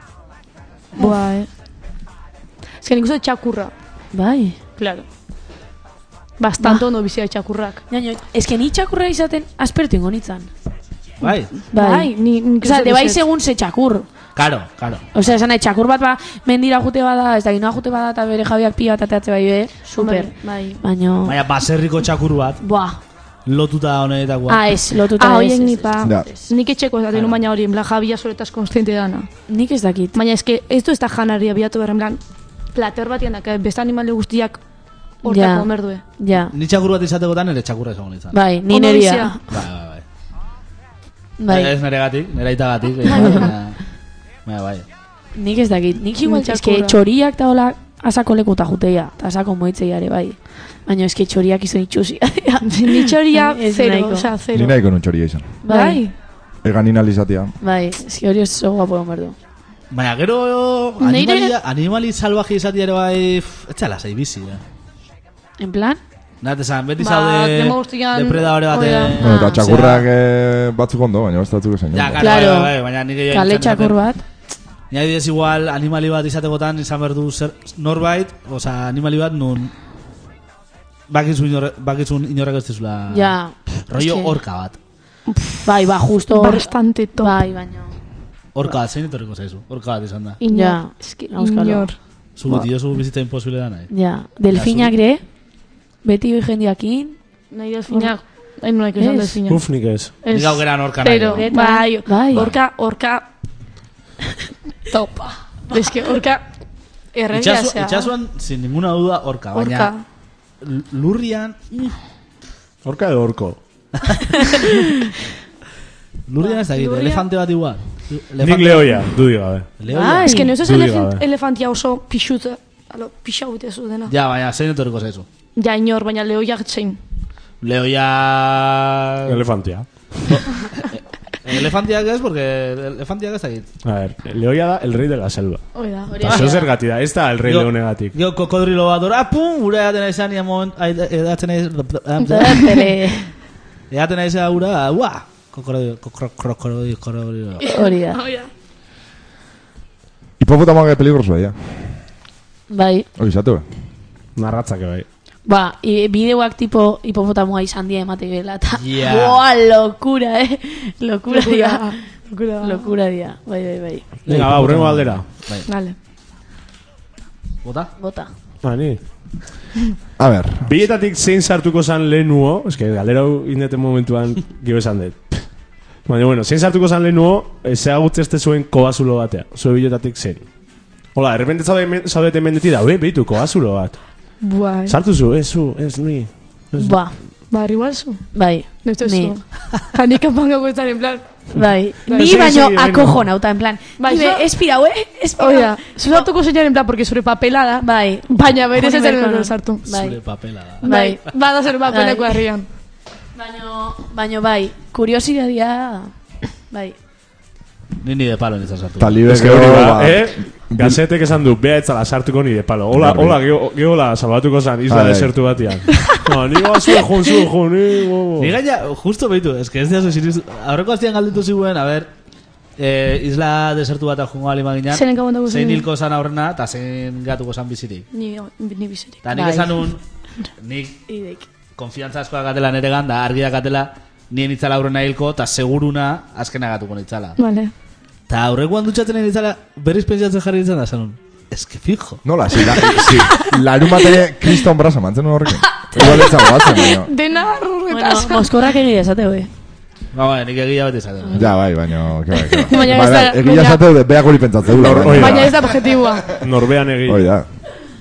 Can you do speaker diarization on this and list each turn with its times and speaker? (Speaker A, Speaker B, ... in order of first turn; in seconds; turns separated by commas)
Speaker A: 1.0-1.5, Speaker A: 2.8-3.7, Speaker B: 4.1-4.6, Speaker A: 4.8-5.0, Speaker A: 6.4-7.8, Speaker B: 6.6-6.9, Speaker B: 7.9-10.5, Speaker C: 11.2-11.5, Speaker A: 11.2-13.2, Speaker B: 11.7-14.1, Speaker C: 14.3-15.3, Speaker B: 15.1-21.4, Speaker A: 19.9-20.8, Speaker C: 21.3-22.6, Speaker B: 22.6-23.0, Speaker C: 23.5-24.6, Speaker B: 24.5-26.4, Speaker A: 25.2-29.3, Speaker C: 27.1-27.4, Speaker B: 29.5-30.2, Speaker A: 30.1-32.2, Speaker A: 32.7-34.6, Speaker A: 35.2-36.0, Speaker B: 35.2-36.5, Speaker C: 36.5-38.4, Speaker B: 38.3-39.4, Speaker A: 38.7-39.4, Speaker C: 39.5-40.0, Speaker B: 41.4-41.7, Speaker C: 41.5-43.8, Speaker B: 43.1-43.5, Speaker C: 44.5-44.9, Speaker B: 45.4-54.3, Speaker A: 46.2-47.0, Speaker A: 52.6-54.8, Speaker D: 54.5-55.5, Speaker B: 55.6-56.0, Speaker A: 55.7-56.1, Speaker D: 56.6-57.5, Speaker B: 57.6-59.4, Speaker C: 59.9-64.6, Speaker B: 61.0-61.5, Speaker B: 65.6-66.0, Speaker C: 66.4-70.1, Speaker A: 67.0-69.2, Speaker B: 69.2-69.6, Speaker D: 69.2-72.3, Speaker C: 71.9-74.0, Speaker B: 72.2-72.8, Speaker B: 73.3-74.2, Speaker C: 74.9-79.7, Speaker C: 81.1-83.4, Speaker B: 83.1-84.4, Speaker C: 83.9-84.8, Speaker A: 85.3-85.7, Speaker B: 85.7-87.9, Speaker A: 86.3-87.4, Speaker C: 88.5-90.4, Speaker A: 90.4-92.7, Speaker B: 90.5-91.9, Speaker C: 92.4-93.9, Speaker B: 93.9-95.2, Speaker C: 94.5-94.9, Speaker B: 96.0-97.2, Speaker A: 97.5-99.6, Speaker B: 99.0-99.4, Speaker E: 99.5-100.1, Speaker A: 100.2-103.3, Speaker C: 100.3-101.5, Speaker B: 101.3-102.5, Speaker A: 104.9-106.5, Speaker A: 107.1-108.1, Speaker C: 107.3-109.9, Speaker A: 109.5-110.0, Speaker C: 110.6-112.0, Speaker E: 112.8-113.6, Speaker C: 116.3-119.2, Speaker A: 116.4-117.3, Speaker E: 118.4-119.7, Speaker C: 119.8-120.3, Speaker B: 119.9-120.6, Speaker A: 120.2-124.1, Speaker E: 120.6-121.2, Speaker C: 124.1-125.3, Speaker A: 125.6-127.0, Speaker C: 127.6-129.4, Speaker E: 129.3-130.4, Speaker C: 130.3-133.7, Speaker E: 133.8-135.7, Speaker A: 135.7-136.2, Speaker B: 136.1-136.7, Speaker E: 136.2-138.1, Speaker C: 136.2-136.6, Speaker C: 137.4-142.8, Speaker B: 142.3-143.3, Speaker C: 143.9-147.7, Speaker A: 147.6-148.5, Speaker B: 147.7-148.2, Speaker D: 150.4-151.6, Speaker B: 152.7-153.1, Speaker D: 153.2-153.7, Speaker E: 154.4-155.1, Speaker B: 155.5-164.1, Speaker C: 158.8-159.4, Speaker A: 161.3-162.9, Speaker E: 164.3-165.3, Speaker C: 164.3-165.7, Speaker A: 165.7-165.9, Speaker C: 167.6-167.9, Speaker B: 168.0-168.3, Speaker E: 168.6-169.0, Speaker D: 170.2-170.7, Speaker E: 170.6-175.4, Speaker E: 176.1-180.5, Speaker E: 181.2-184.0, Speaker A: 184.4-185.0, Speaker E: 184.9-187.0, Speaker B: 186.8-187.2, Speaker A: 187.5-188.2, Speaker B: 188.3-189.3, Speaker A: 188.8-191.3, Speaker B: 191.6-196.3, Speaker E: 191.6-193.2, Speaker A: 192.1-192.5, Speaker A: 194.0-194.5, Speaker A: 195.4-199.9, Speaker B: 197.8-200.2, Speaker C: 199.9-200.9, Speaker B: 200.8-201.2, Speaker A: 200.8-202.7, Speaker B: 201.9-202.5, Speaker B: 203.3-206.1, Speaker B: 206.7-207.0, Speaker C: 208.0-209.2, Speaker D: 209.0-211.0, Speaker E: 209.3-218.6, Speaker D: 212.9-213.4, Speaker D: 214.9-215.3, Speaker A: 215.9-216.2, Speaker C: 218.4-222.1, Speaker C: 222.8-228.1, Speaker A: 224.9-225.9, Speaker A: 228.1-229.2, Speaker C: 229.2-230.0, Speaker B: 229.3-229.8, Speaker C: 230.6-231.0, Speaker B: 231.1-231.4, Speaker C: 231.8-237.4, Speaker A: 237.4-237.7, Speaker C: 238.3-242.2, Speaker D: 242.2-247.1, Speaker A: 245.9-248.5, Speaker B: 246.0-246.3, Speaker B: 247.9-249.5, Speaker C: 250.1-251.5, Speaker B: 251.2-251.5, Speaker D: 251.3-255.7, Speaker B: 252.5-253.1, Speaker A: 252.7-253.8, Speaker E: 254.7-255.6, Speaker A: 255.2-256.4, Speaker E: 256.3-257.3, Speaker D: 257.1-257.4